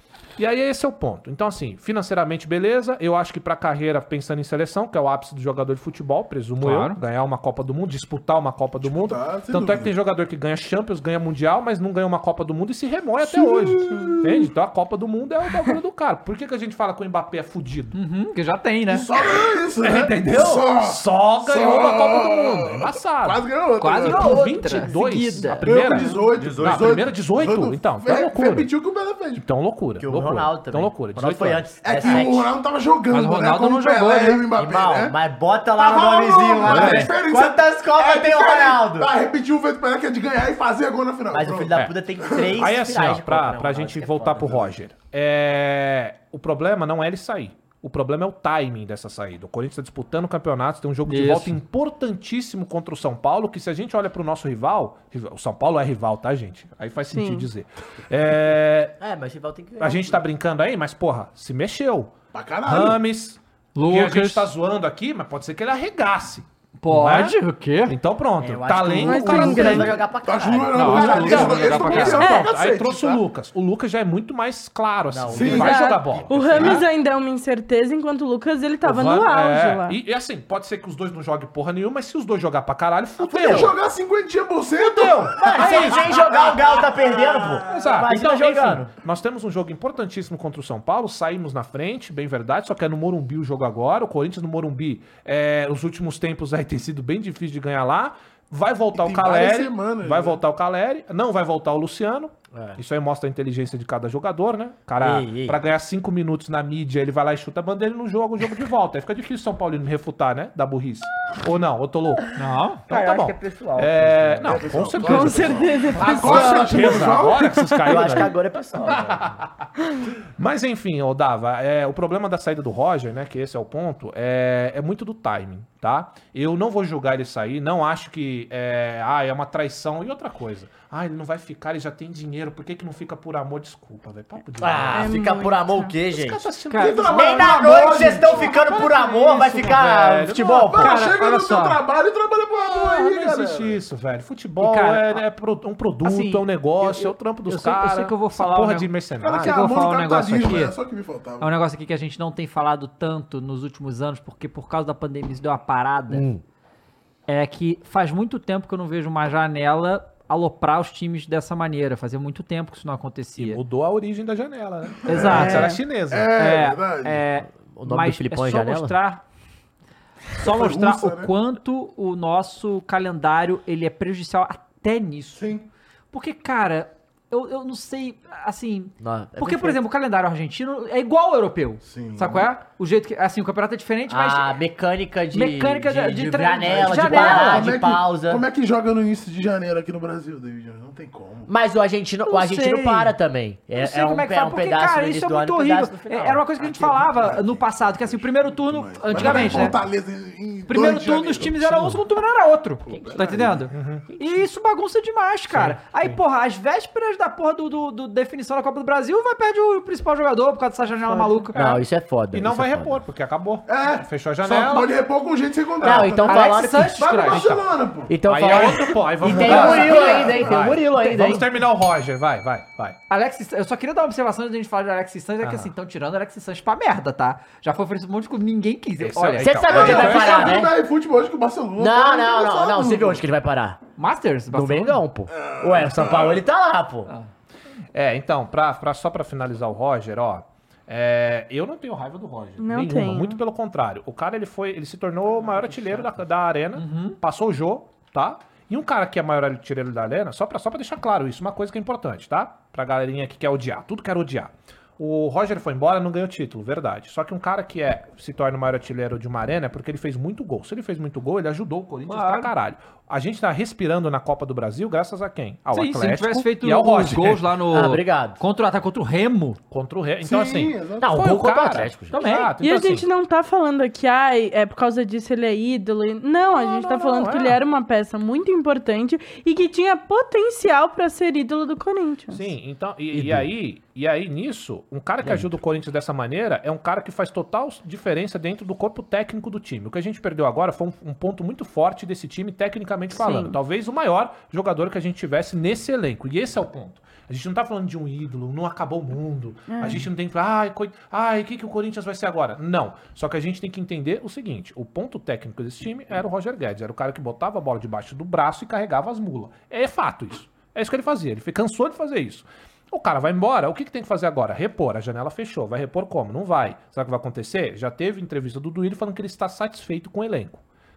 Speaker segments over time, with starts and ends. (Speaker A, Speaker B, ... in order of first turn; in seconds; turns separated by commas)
Speaker A: 0.4-18.0, Speaker B: 6.6-7.0, Speaker C: 8.8-9.9, Speaker C: 13.2-14.5, Speaker B: 17.9-19.1, Speaker C: 18.9-24.5, Speaker A: 19.8-23.4, Speaker B: 23.8-26.0, Speaker A: 24.0-28.7, Speaker C: 25.6-29.4, Speaker D: 26.4-26.9, Speaker A: 29.4-32.2, Speaker D: 30.0-32.5, Speaker C: 31.8-35.1, Speaker B: 33.1-34.5, Speaker D: 34.5-39.1, Speaker C: 35.7-41.7, Speaker A: 36.7-37.1, Speaker D: 41.3-44.8, Speaker A: 42.6-58.9, Speaker B: 51.1-51.6, Speaker E: 57.1-57.5, Speaker D: 59.0-60.2, Speaker A: 59.8-62.1, Speaker C: 62.3-63.0, Speaker B: 62.7-62.9, Speaker A: 62.7-69.9, Speaker B: 63.7-64.5, Speaker B: 66.8-67.9, Speaker D: 68.4-71.9, Speaker E: 69.0-69.9, Speaker C: 69.4-73.2, Speaker A: 70.7-76.8, Speaker B: 70.8-72.3, Speaker E: 72.2-72.5, Speaker D: 75.1-76.8, Speaker C: 75.3-75.8, Speaker E: 75.5-80.0, Speaker A: 78.8-83.7, Speaker C: 83.2-86.3, Speaker D: 83.4-83.7, Speaker A: 84.8-86.4, Speaker D: 85.4-88.9, Speaker A: 87.7-112.3, Speaker C: 98.9-100.4, Speaker D: 105.0-105.6, Speaker B: 112.3-112.8, Speaker A: 112.9-119.5, Speaker D: 112.9-114.8, Speaker C: 114.4-117.5, Speaker E: 115.0-116.9, Speaker E: 117.5-117.9, Speaker D: 117.8-119.4, Speaker A: 120.4-135.1, Speaker D: 134.6-136.4, Speaker E: 134.9-135.9, Speaker A: 136.1-140.7, Speaker B: 136.7-137.1, Speaker C: 136.8-138.5, Speaker D: 137.1-141.0, Speaker C: 140.7-143.8, Speaker B: 140.7-141.8, Speaker A: 142.7-149.7, Speaker B: 144.6-145.2, Speaker B: 146.0-150.7, Speaker C: 149.2-151.5, Speaker B: 151.4-156.3, Speaker D: 156.1-156.4, Speaker B: 157.3-163.6, Speaker A: 163.4-166.3, Speaker C: 165.1-167.2, Speaker B: 165.1-165.7, Speaker E: 165.4-165.8, Speaker B: 166.3-169.2, Speaker D: 167.5-168.9, Speaker B: 170.3-175.5, Speaker C: 170.4-171.3, Speaker C: 175.3-175.7, Speaker B: 176.1-184.6, Speaker D: 179.0-179.8, Speaker C: 181.8-182.5, Speaker D: 184.1-188.4, Speaker B: 185.3-187.7, Speaker C: 186.7-191.5, Speaker D: 191.5-197.0, Speaker B: 192.2-193.2, Speaker B: 193.7-199.8, Speaker C: 196.7-202.0, Speaker A: 199.2-199.4, Speaker D: 199.2-199.6, Speaker B: 200.7-211.5, Speaker C: 202.9-203.7, Speaker D: 202.9-203.2, Speaker A: 203.7-204.0, Speaker A: 205.5-206.2, Speaker D: 211.5-213.0, Speaker A: 211.5-214.9, Speaker C: 213.7-218.1, Speaker D: 215.8-217.3, Speaker B: 215.8-217.5, Speaker A: 217.3-217.6, Speaker D: 218.1-221.4, Speaker A: 218.2-222.9, Speaker C: 219.2-220.6, Speaker B: 221.0-221.2, Speaker B: 223.1-229.8, Speaker A: 225.4-225.7, Speaker A: 229.0-230.6, Speaker D: 229.4-230.7, Speaker C: 229.7-233.2, Speaker D: 231.8-233.8, Speaker B: 234.0-235.0, Speaker D: 234.5-237.1, Speaker C: 235.4-236.4, Speaker A: 237.9-267.4, Speaker E: 242.6-243.4, Speaker B: 246.8-247.2, Speaker B: 262.1-262.5, Speaker B: 265.7-269.6, Speaker D: 267.7-268.4, Speaker A: 269.7-273.1, Speaker C: 270.2-271.1, Speaker D: 271.0-272.2, Speaker B: 272.1-272.5, Speaker E: 272.6-282.4, Speaker A: 276.5-277.6, Speaker A: 282.3-320.6, Speaker D: 283.1-283.5, Speaker D: 285.2-285.6, Speaker E: 293.2-293.5, Speaker E: 299.7-300.1